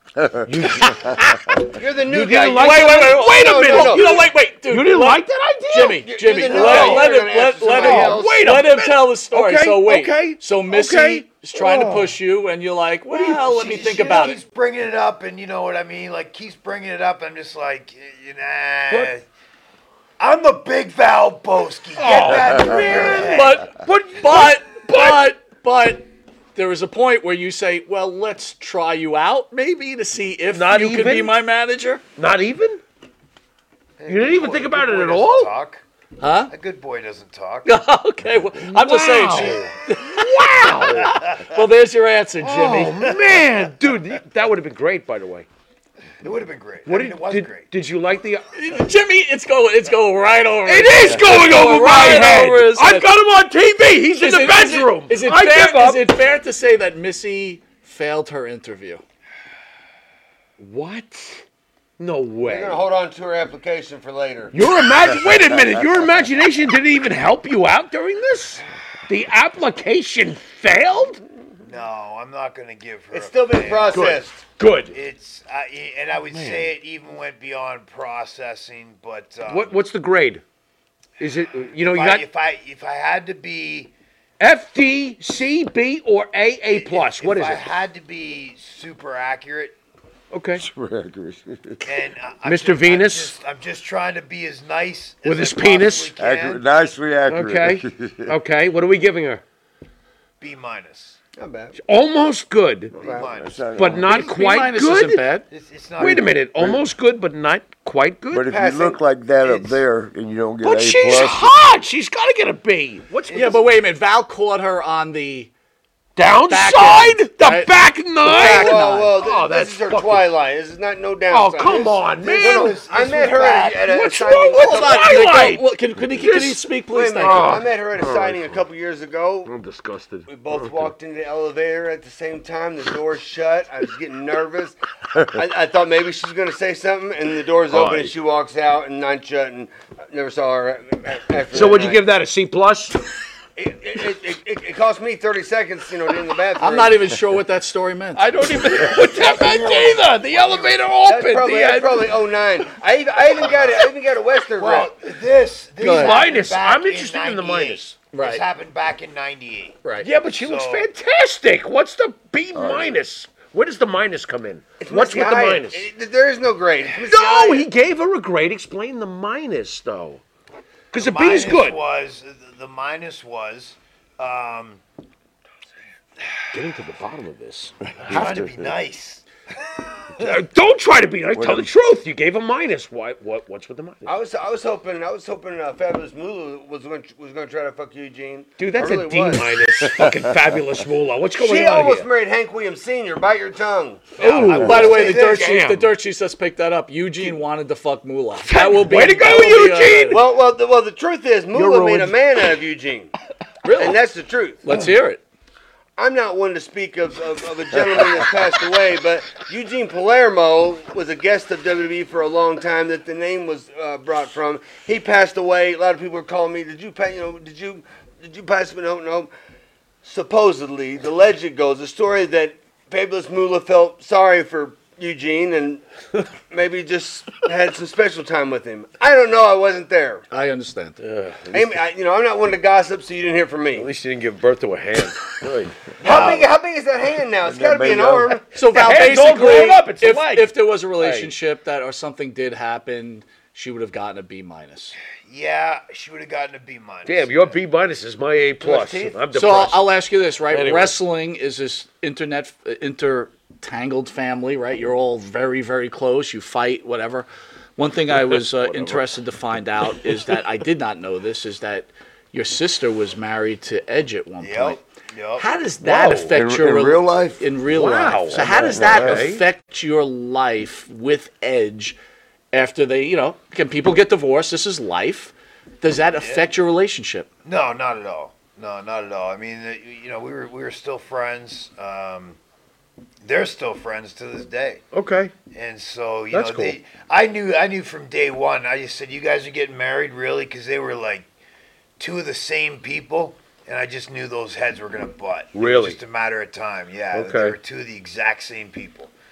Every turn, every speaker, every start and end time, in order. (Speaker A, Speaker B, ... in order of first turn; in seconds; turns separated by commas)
Speaker A: 0.2-1.6, Speaker B: 0.5-1.2, Speaker C: 1.8-4.2, Speaker B: 2.0-7.1, Speaker D: 2.5-14.4, Speaker C: 6.0-8.5, Speaker B: 7.7-12.2, Speaker E: 13.1-19.2, Speaker E: 20.2-23.6, Speaker B: 21.9-25.2, Speaker D: 23.0-32.0, Speaker B: 30.5-31.3, Speaker B: 32.2-32.8, Speaker E: 34.0-35.8, Speaker B: 34.1-35.5, Speaker D: 36.2-36.5, Speaker E: 36.5-37.7, Speaker D: 37.6-43.0, Speaker B: 38.6-41.1, Speaker E: 39.3-39.7, Speaker E: 41.0-41.5, Speaker B: 42.4-45.5, Speaker E: 43.0-43.5, Speaker E: 46.2-47.7, Speaker B: 46.9-48.5, Speaker D: 48.5-53.1, Speaker B: 50.6-56.1, Speaker D: 54.2-59.0, Speaker B: 60.6-61.4, Speaker B: 62.0-62.8, Speaker C: 62.4-64.5, Speaker B: 64.5-71.2, Speaker E: 71.6-74.2, Speaker C: 73.1-74.4, Speaker B: 73.9-75.0, Speaker E: 74.9-79.8, Speaker B: 76.3-76.7, Speaker B: 79.5-80.4, Speaker B: 81.2-82.2, Speaker E: 81.8-83.9, Speaker B: 84.4-87.7, Speaker E: 86.7-89.8, Speaker B: 90.3-90.6, Speaker A: 90.5-91.8, Speaker E: 91.8-96.6, Speaker B: 92.4-93.3, Speaker B: 95.2-96.1, Speaker A: 96.2-98.3, Speaker B: 97.3-99.4, Speaker E: 100.4-101.2, Speaker C: 101.4-101.8, Speaker B: 101.8-102.9, Speaker E: 102.9-104.0, Speaker C: 103.0-103.3, Speaker A: 103.2-104.2, Speaker B: 103.7-105.3, Speaker D: 104.0-105.5, Speaker E: 105.5-106.5, Speaker B: 106.0-108.5, Speaker A: 108.3-111.5, Speaker C: 108.5-109.0, Speaker E: 109.4-109.8, Speaker B: 110.6-113.6, Speaker E: 113.3-113.6, Speaker D: 113.3-115.5, Speaker B: 116.2-120.2, Speaker D: 116.4-119.1, Speaker C: 118.2-125.1, Speaker B: 121.3-122.8, Speaker E: 122.2-123.8, Speaker B: 123.8-126.6, Speaker D: 124.5-127.6, Speaker C: 126.9-129.5, Speaker B: 127.2-128.6, Speaker B: 129.4-130.9, Speaker C: 130.3-142.0, Speaker B: 137.7-138.1, Speaker B: 141.5-143.0, Speaker C: 143.6-147.0, Speaker D: 146.6-148.3, Speaker B: 148.1-152.1, Speaker E: 148.8-150.8, Speaker C: 151.0-154.9, Speaker E: 153.5-153.8, Speaker E: 154.6-159.8, Speaker D: 155.8-156.2, Speaker B: 155.8-158.0, Speaker D: 158.1-158.4, Speaker D: 159.8-160.1, Speaker B: 160.0-165.9, Speaker E: 160.3-160.9, Speaker A: 162.5-162.9, Speaker C: 164.8-167.7, Speaker B: 167.1-170.2, Speaker B: 170.9-171.8, Speaker E: 170.9-174.8, Speaker B: 176.5-178.6, Speaker A: 178.0-178.4, Speaker E: 178.0-180.4, Speaker B: 180.2-184.1, Speaker A: 181.3-181.7, Speaker C: 184.0-189.5, Speaker B: 188.6-192.1, Speaker A: 189.9-190.3, Speaker C: 191.3-194.2, Speaker B: 194.2-195.9, Speaker E: 194.2-195.6, Speaker D: 194.2-200.2, Speaker B: 198.4-200.2, Speaker C: 200.1-203.1, Speaker B: 201.5-202.1, Speaker D: 203.6-204.0, Speaker C: 203.8-204.6, Speaker D: 204.6-205.2, Speaker C: 206.0-219.3, Speaker C: 220.0-225.8, Speaker C: 226.5-230.2, Speaker D: 230.3-231.0, Speaker B: 231.0-231.7, Speaker C: 231.5-233.9, Speaker B: 233.7-236.4, Speaker C: 236.0-238.5, Speaker E: 236.1-236.4, Speaker A: 236.1-236.4, Speaker A: 237.4-238.3, Speaker D: 238.5-244.9, Speaker B: 238.6-241.3, Speaker E: 245.3-247.6, Speaker B: 247.0-249.9, Speaker C: 248.6-249.2, Speaker D: 249.3-264.8, Speaker B: 250.5-250.9, Speaker B: 258.3-259.0, Speaker E: 264.4-265.4, Speaker D: 265.4-272.0, Speaker B: 265.8-266.3, Speaker A: 266.3-267.4, Speaker B: 267.7-269.4, Speaker A: 268.6-269.2, Speaker D: 272.5-277.3, Speaker E: 276.2-276.4, Speaker E: 277.4-282.4, Speaker E: 283.2-284.8, Speaker B: 284.9-285.3, Speaker E: 285.5-291.3, Speaker B: 286.3-286.8, Speaker E: 292.0-299.1, Speaker B: 295.5-296.0, Speaker B: 297.1-297.6